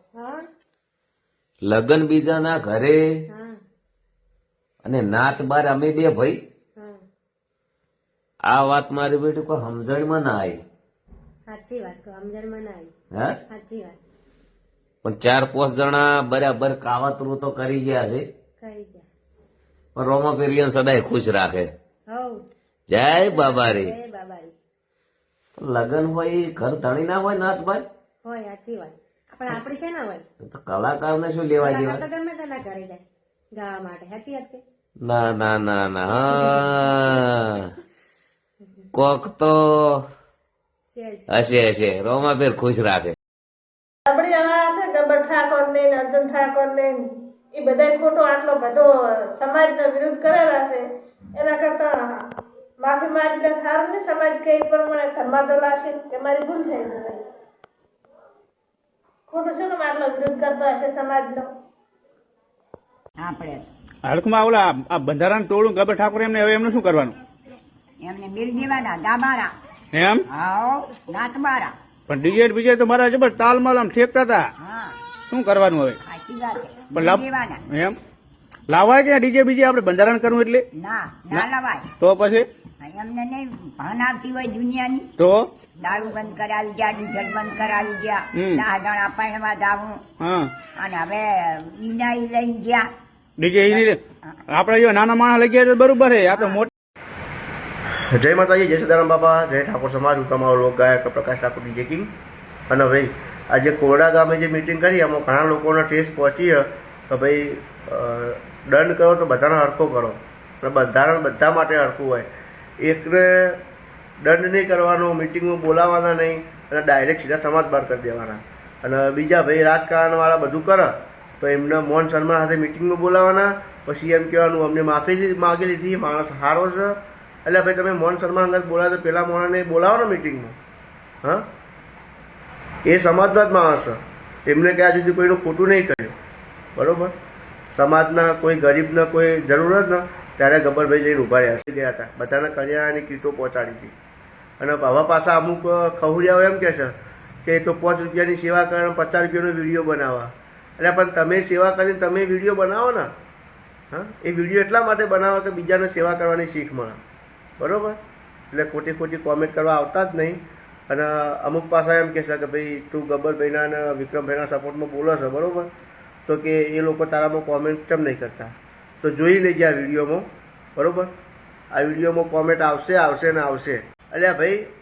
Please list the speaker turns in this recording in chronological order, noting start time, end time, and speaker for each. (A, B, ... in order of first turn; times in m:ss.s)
0:00.1-0:00.4 A
0:01.6-0:03.0 B
0:03.3-0:03.6 A
0:04.8-0:06.4 B
0:06.8-0:07.0 A
0:08.5-0:10.6 B
0:11.5-0:12.9 A
0:13.5-0:14.0 A
0:15.0-0:18.2 B
0:18.6-0:19.0 A
0:20.0-0:21.7 B
0:22.1-0:22.4 A
0:22.9-0:23.9 B
0:23.0-0:24.5 A
0:25.6-0:27.8 B
0:28.2-0:30.2 A
0:30.4-0:32.0 B
0:31.6-0:33.0 A
0:33.5-0:34.6 A
0:35.0-0:37.6 B
0:36.1-0:36.6 A
0:38.9-0:40.0 B
0:40.9-0:41.7 A
0:41.3-0:43.1 B
0:44.1-0:57.3 C
0:59.3-1:01.5 C
1:03.2-1:03.7 D
1:04.0-1:07.2 E
1:08.0-1:09.5 D
1:09.9-1:10.2 E
1:10.3-1:11.8 D
1:12.1-1:14.5 E
1:14.6-1:15.0 D
1:15.3-1:16.0 E
1:16.0-1:17.6 D
1:16.9-1:18.0 E
1:18.7-1:20.6 E
1:20.7-1:21.9 D
1:22.0-1:22.5 E
1:22.8-1:25.1 D
1:25.2-1:25.5 E
1:25.8-1:30.0 D
1:28.3-1:28.6 E
1:30.2-1:30.5 E
1:30.8-1:32.9 D
1:33.4-1:36.7 E
1:36.3-1:36.6 D
1:38.1-1:42.1 F
1:42.7-1:52.3 F
1:52.8-1:53.6 F
1:54.2-2:10.6 F
2:12.8-2:16.1 F
2:16.8-2:17.1 F
2:17.7-2:23.9 F
2:24.6-2:26.9 F
2:27.4-2:33.1 F
2:33.9-2:37.0 F
2:37.6-2:38.0 F
2:38.5-2:45.7 F
2:46.3-2:50.2 F
2:50.8-2:51.1 F
2:51.7-2:54.6 F